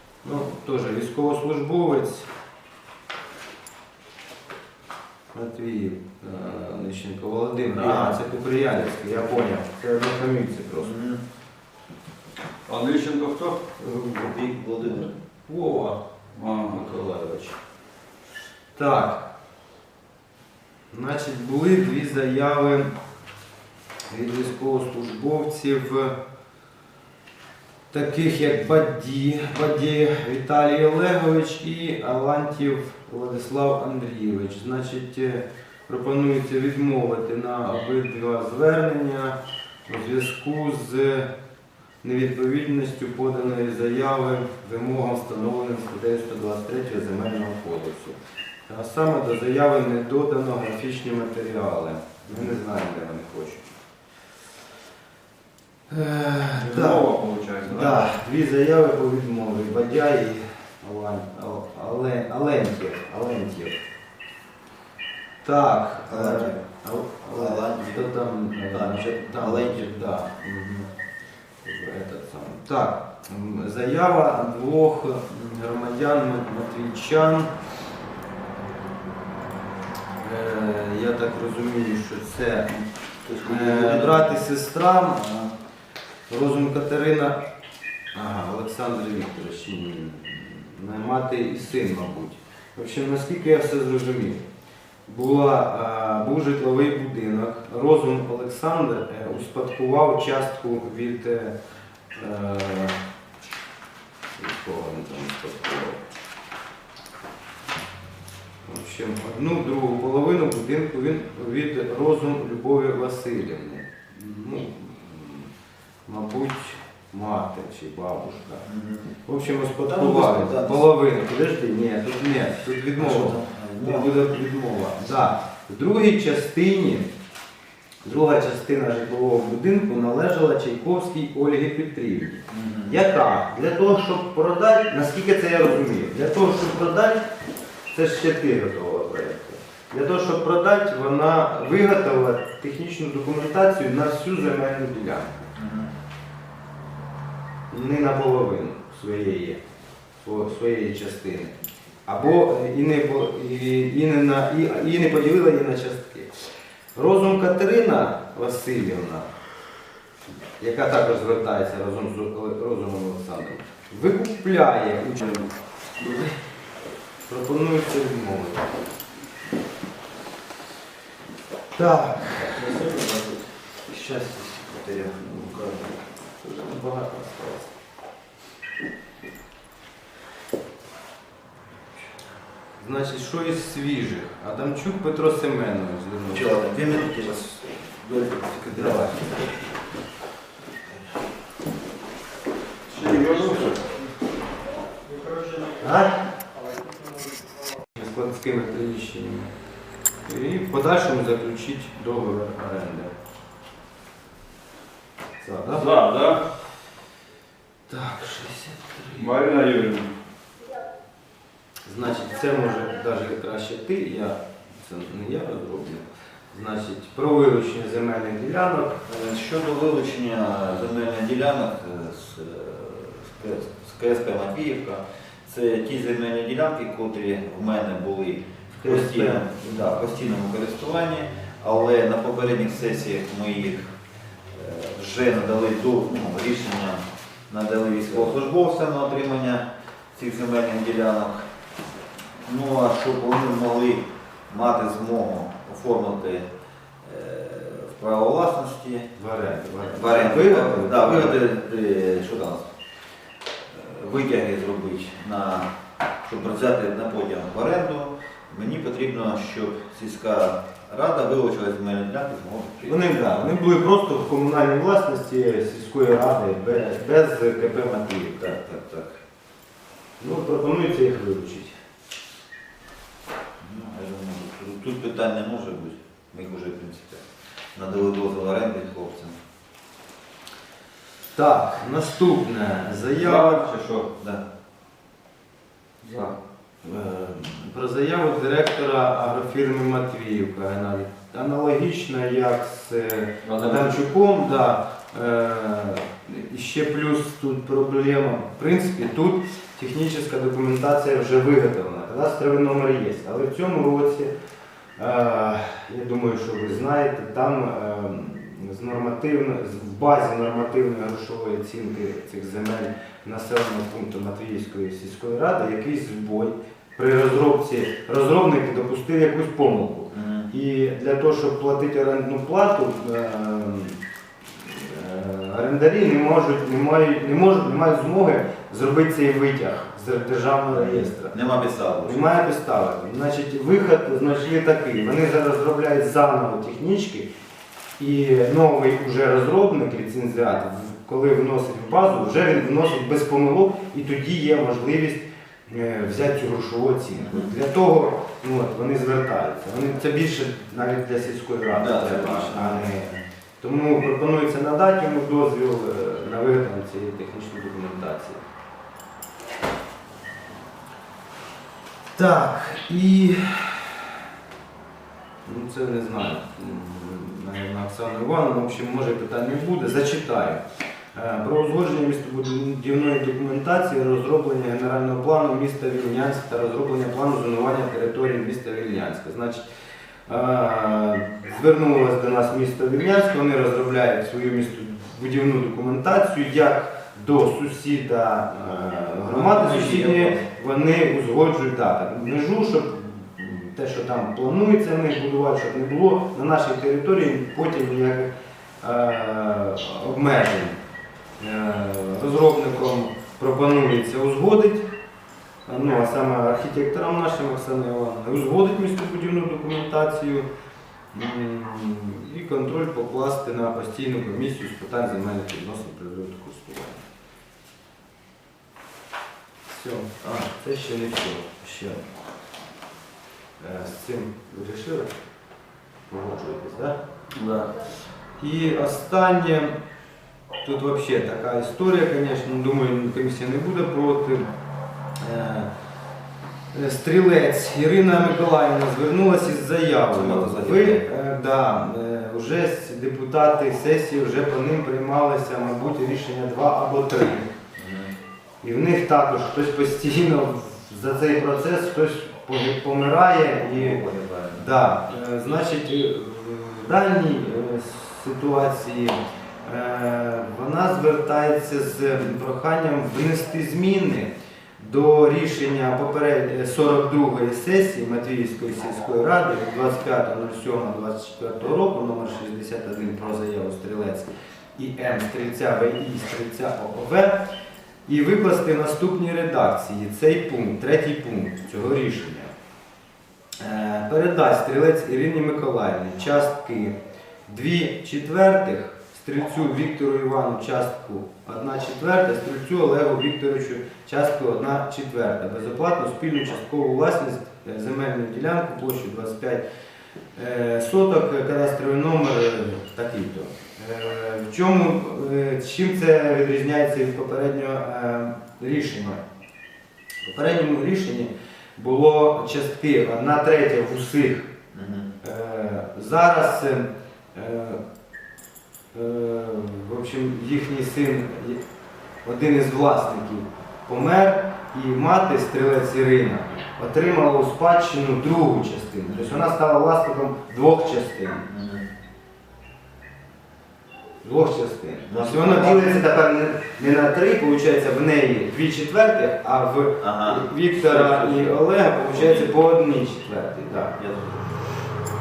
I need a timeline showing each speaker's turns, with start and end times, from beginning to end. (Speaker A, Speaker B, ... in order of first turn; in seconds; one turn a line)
Speaker A: 0.2-2.3
Speaker A: 5.3-10.9
Speaker B: 7.8-8.2
Speaker C: 10.8-11.2
Speaker B: 12.7-13.6
Speaker A: 13.8-16.0
Speaker C: 14.2-15.1
Speaker B: 16.3-16.8
Speaker A: 16.6-17.6
Speaker A: 18.8-19.3
Speaker A: 20.9-22.9
Speaker A: 24.1-26.2
Speaker A: 27.9-41.3
Speaker A: 42.0-53.7
Speaker A: 55.9-57.1
Speaker B: 56.6-58.1
Speaker A: 57.6-63.8
Speaker A: 65.4-70.9
Speaker C: 66.1-66.6
Speaker C: 67.3-68.1
Speaker C: 68.7-70.2
Speaker A: 71.6-77.5
Speaker A: 80.2-82.9
Speaker C: 83.2-84.3
Speaker A: 83.4-85.2
Speaker C: 85.2-85.5
Speaker A: 86.3-87.4
Speaker A: 88.1-94.5
Speaker A: 95.1-101.6
Speaker A: 102.1-103.0
Speaker A: 104.4-106.0
Speaker A: 108.7-115.5
Speaker A: 116.1-118.7
Speaker C: 118.7-119.1
Speaker A: 119.2-127.1
Speaker C: 119.8-120.8
Speaker C: 123.0-124.1
Speaker A: 128.0-137.2
Speaker C: 132.5-133.0
Speaker A: 137.9-145.5
Speaker C: 145.6-145.9
Speaker A: 147.7-149.6
Speaker A: 150.2-151.6
Speaker A: 152.1-156.3
Speaker A: 156.9-159.3
Speaker A: 160.6-165.5
Speaker A: 166.0-166.3
Speaker A: 167.3-168.7
Speaker A: 171.8-172.6
Speaker C: 172.4-176.0
Speaker A: 175.2-175.5
Speaker A: 176.4-177.7
Speaker A: 182.8-187.0
Speaker C: 186.3-189.5
Speaker A: 188.7-189.3
Speaker B: 192.9-194.0
Speaker A: 193.0-193.8
Speaker B: 195.1-195.7
Speaker A: 195.8-196.3
Speaker A: 197.9-199.5
Speaker A: 200.2-203.1
Speaker A: 205.4-205.9
Speaker B: 205.7-206.4
Speaker A: 207.9-209.3
Speaker B: 209.2-210.1
Speaker A: 211.9-219.0
Speaker C: 219.1-233.9
Speaker A: 228.7-229.9
Speaker C: 234.5-241.5
Speaker C: 242.4-246.5
Speaker C: 247.0-249.1
Speaker A: 249.1-251.4
Speaker C: 249.8-252.7
Speaker C: 253.7-255.7
Speaker C: 256.2-263.5
Speaker A: 262.8-268.6
Speaker C: 268.4-269.2
Speaker A: 270.2-271.8
Speaker C: 273.6-277.2
Speaker C: 277.8-279.4
Speaker A: 281.3-283.6
Speaker B: 283.2-284.1
Speaker C: 284.2-284.4
Speaker B: 286.0-286.3
Speaker A: 286.8-304.3
Speaker B: 293.4-294.0
Speaker A: 305.0-324.0
Speaker C: 320.1-320.5
Speaker A: 324.5-331.4
Speaker C: 330.7-332.3
Speaker A: 332.0-337.3
Speaker A: 338.0-358.4
Speaker C: 351.7-352.9
Speaker A: 362.1-364.0
Speaker A: 365.4-370.6
Speaker A: 371.1-379.7
Speaker A: 380.3-398.3
Speaker C: 389.2-390.5
Speaker A: 398.8-400.8
Speaker A: 401.4-404.9
Speaker A: 405.6-410.5
Speaker A: 411.1-417.0
Speaker A: 419.7-422.0
Speaker A: 423.6-425.1
Speaker A: 426.1-427.0
Speaker B: 427.4-427.8
Speaker A: 428.4-429.8
Speaker A: 430.6-434.5
Speaker A: 435.2-435.7
Speaker A: 436.7-447.5
Speaker C: 440.1-441.1
Speaker C: 447.8-448.1
Speaker A: 448.6-454.0
Speaker C: 453.6-454.7
Speaker A: 454.6-477.5
Speaker A: 478.1-482.5
Speaker A: 483.6-499.6
Speaker A: 500.4-509.2
Speaker A: 510.2-514.5
Speaker C: 514.7-515.1
Speaker A: 515.2-517.8
Speaker A: 518.9-521.6
Speaker A: 522.2-531.5
Speaker C: 529.1-529.4
Speaker C: 531.5-531.9
Speaker A: 534.2-544.0
Speaker C: 535.1-536.0
Speaker C: 540.0-542.5
Speaker C: 544.0-544.7